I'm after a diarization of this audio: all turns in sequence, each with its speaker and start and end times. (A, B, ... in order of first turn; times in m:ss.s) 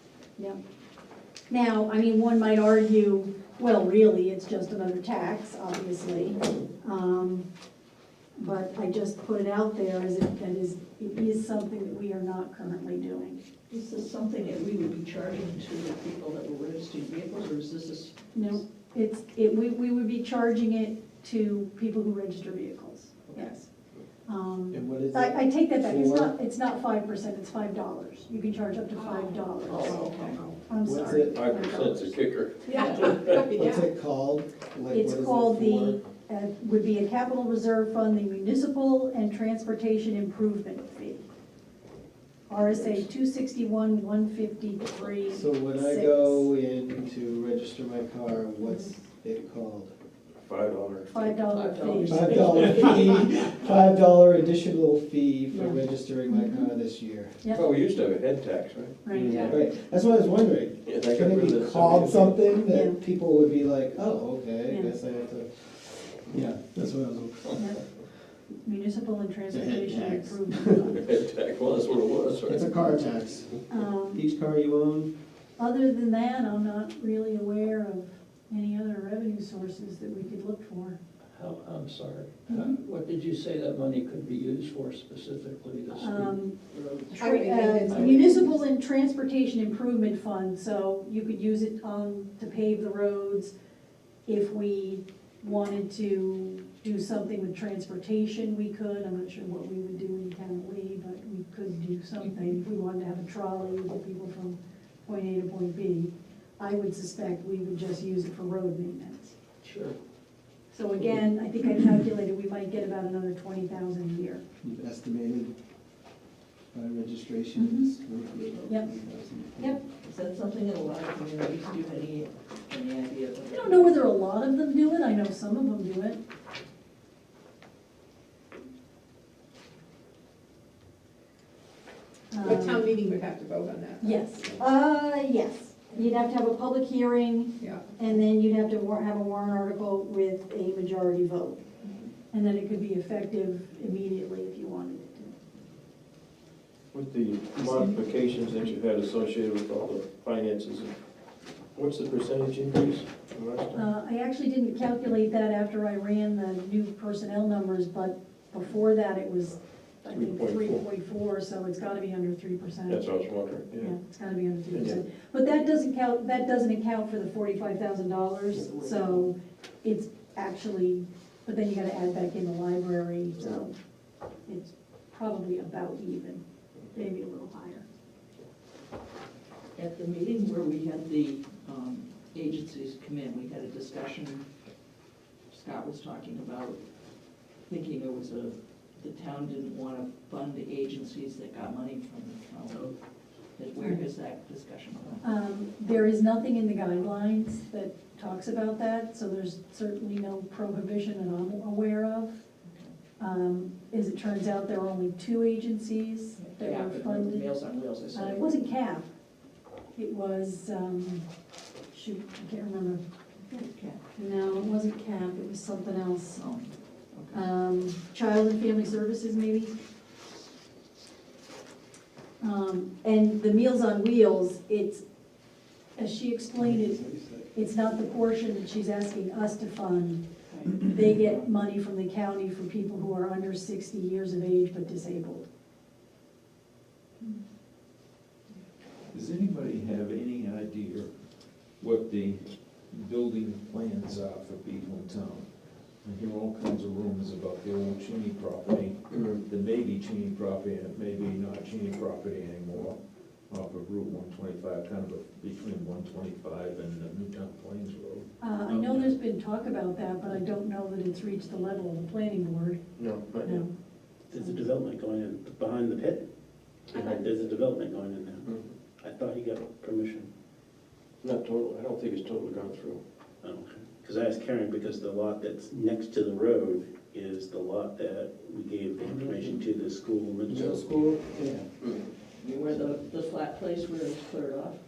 0:01.5-0:07.4 A
0:08.4-0:13.4 A
0:13.7-0:18.1 B
0:18.3-0:23.6 A
0:23.4-0:23.7 C
0:24.2-0:30.1 A
0:24.7-0:26.3 D
0:28.9-0:30.6 C
0:29.7-0:30.4 B
0:30.6-0:32.2 A
0:30.8-0:31.5 D
0:31.3-0:33.4 E
0:32.6-0:33.8 C
0:32.7-0:33.2 B
0:33.5-0:36.0 D
0:34.9-0:41.2 A
0:42.5-0:46.5 A
0:45.3-0:49.9 D
0:48.6-0:48.9 A
0:50.4-0:51.1 E
0:51.1-0:52.8 A
0:51.4-0:53.2 B
0:52.0-0:57.4 D
0:55.5-0:56.7 A
0:57.5-0:59.6 E
0:59.0-0:59.5 A
0:59.3-1:07.5 D
1:00.9-1:02.4 E
1:02.7-1:03.0 A
1:04.7-1:04.9 A
1:07.6-1:07.8 A
1:08.6-1:11.1 A
1:09.5-1:10.9 D
1:10.9-1:12.7 E
1:12.4-1:15.1 D
1:13.7-1:14.2 A
1:15.6-1:21.0 A
1:21.4-1:26.3 F
1:21.4-1:23.8 C
1:25.7-1:26.3 C
1:25.9-1:26.6 A
1:26.7-1:27.2 B
1:27.1-1:33.5 A
1:27.2-1:28.6 C
1:34.2-1:49.4 A
1:49.6-1:50.0 B
1:50.7-1:54.4 A
1:54.6-1:55.5 D
1:56.7-1:59.8 D
1:57.6-1:57.9 A
2:00.0-2:04.1 B
2:03.5-2:06.2 A
2:12.3-2:13.0 A
2:12.4-2:14.2 C
2:14.0-2:21.6 A
2:17.6-2:17.9 C
2:22.3-2:25.3 A
2:26.9-2:30.9 E
2:31.8-2:33.9 E
2:33.7-2:43.0 A
2:40.1-2:40.8 E
2:42.9-2:43.9 E
2:43.7-2:53.7 A
2:44.7-2:45.0 E
2:48.6-2:49.3 B
2:54.5-2:57.8 A
2:59.7-3:04.4 B
3:05.5-3:06.8 B
3:07.7-3:12.9 B
3:13.6-3:15.2 B
3:13.8-3:14.0 A
3:15.2-3:22.4 A
3:22.6-3:22.9 B
3:23.2-3:27.4 A
3:26.4-3:28.6 B
3:28.1-3:29.1 A
3:29.9-3:31.2 A
3:31.9-3:33.0 A
3:33.5-3:34.0 B
3:34.2-3:36.4 A
3:36.3-3:37.4 B
3:37.3-3:39.7 A
3:42.4-3:45.0 A
3:46.0-3:47.0 A
3:46.6-3:47.5 D
3:47.5-3:55.5 A
3:50.4-3:51.4 B
3:59.1-4:01.1 G
4:01.8-4:05.5 G
4:06.0-4:13.0 G
4:13.5-4:18.2 G
4:18.4-4:22.8 A
4:18.7-4:19.0 F
4:23.0-4:23.6 E
4:23.4-4:23.7 A
4:24.3-4:26.2 H
4:26.9-4:27.2 E
4:26.9-4:28.5 H
4:28.4-4:28.7 E
4:29.0-4:30.3 H
4:31.2-4:33.0 E
4:33.4-4:40.9 H
4:39.0-4:39.7 D
4:40.5-4:41.6 D
4:42.4-4:44.8 B